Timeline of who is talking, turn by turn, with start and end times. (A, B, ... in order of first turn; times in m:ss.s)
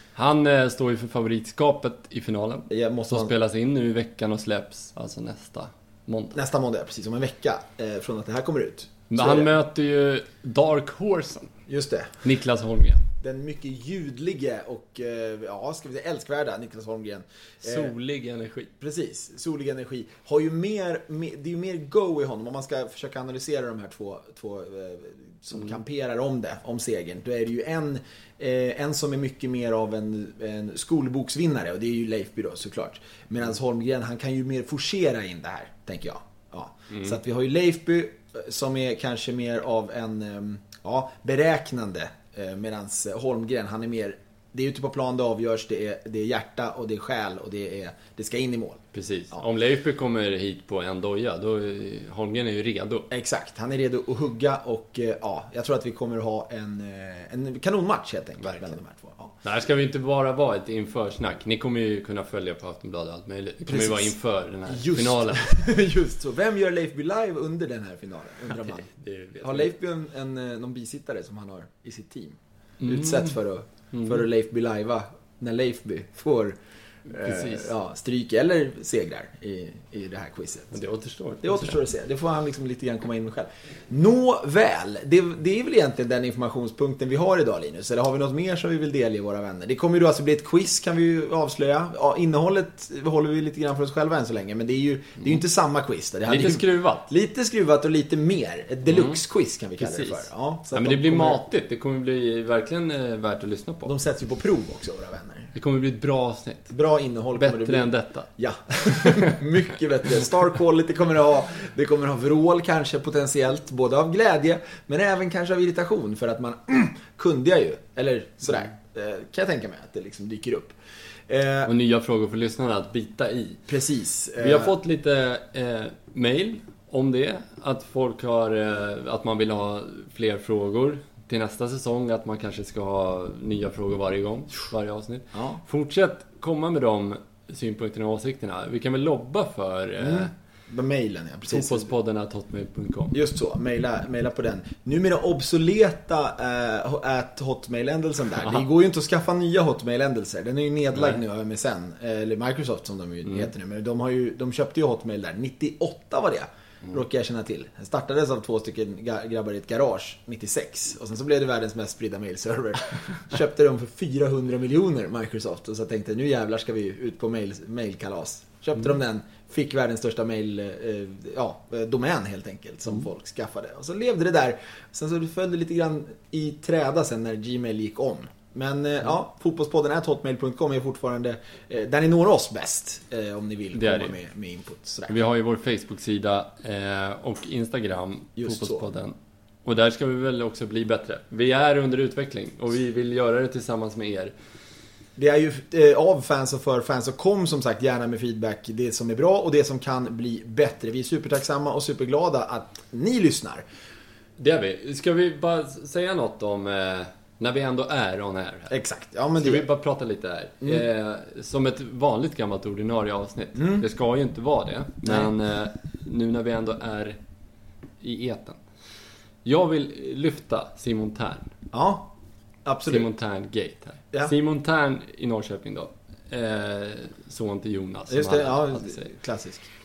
0:00.2-0:06.4 A
0:02.7-0:03.3 B
0:06.3-0:09.5 B
0:09.1-0:11.5 A
0:11.7-0:12.1 B
0:12.2-0:13.0 A
0:13.2-0:17.9 B
0:17.6-0:18.7 A
0:18.8-0:49.4 B
0:36.9-0:37.2 A
0:48.9-0:53.1 A
0:53.1-0:59.4 B
0:58.4-0:58.8 A
0:59.4-1:05.5 A
1:03.7-1:08.9 B
1:08.5-1:09.7 A
1:09.4-1:16.6 B
1:12.8-1:13.4 A
1:13.9-1:14.3 A
1:17.1-1:17.8 A
1:17.1-1:20.8 B
1:20.7-1:21.8 A
1:21.4-1:41.4 B
1:36.3-1:37.1 A
1:38.9-1:39.2 A
1:39.8-1:44.0 A
1:43.8-1:45.5 B
1:45.5-1:46.8 A
1:46.7-2:00.8 B
1:47.3-1:48.3 A
1:49.0-1:49.4 A
2:01.3-2:01.7 B
2:01.6-2:03.6 A
2:03.7-2:04.8 B
2:04.4-2:20.3 A
2:15.3-2:15.6 B
2:20.0-2:21.9 B
2:21.5-2:23.2 A
2:23.1-3:05.2 B
2:30.9-2:31.2 A
3:03.7-3:04.2 A
3:05.1-3:14.4 A
3:08.4-3:08.9 B
3:15.2-3:23.6 B
3:24.4-3:28.8 A
3:28.7-3:29.7 B
3:29.4-3:37.2 A
3:33.6-3:33.9 B
3:35.0-3:35.3 B
3:38.0-3:38.6 A
3:39.4-3:41.5 A
3:41.7-3:42.1 B
3:42.6-3:43.1 B
3:42.9-3:49.1 A
3:48.1-3:49.7 B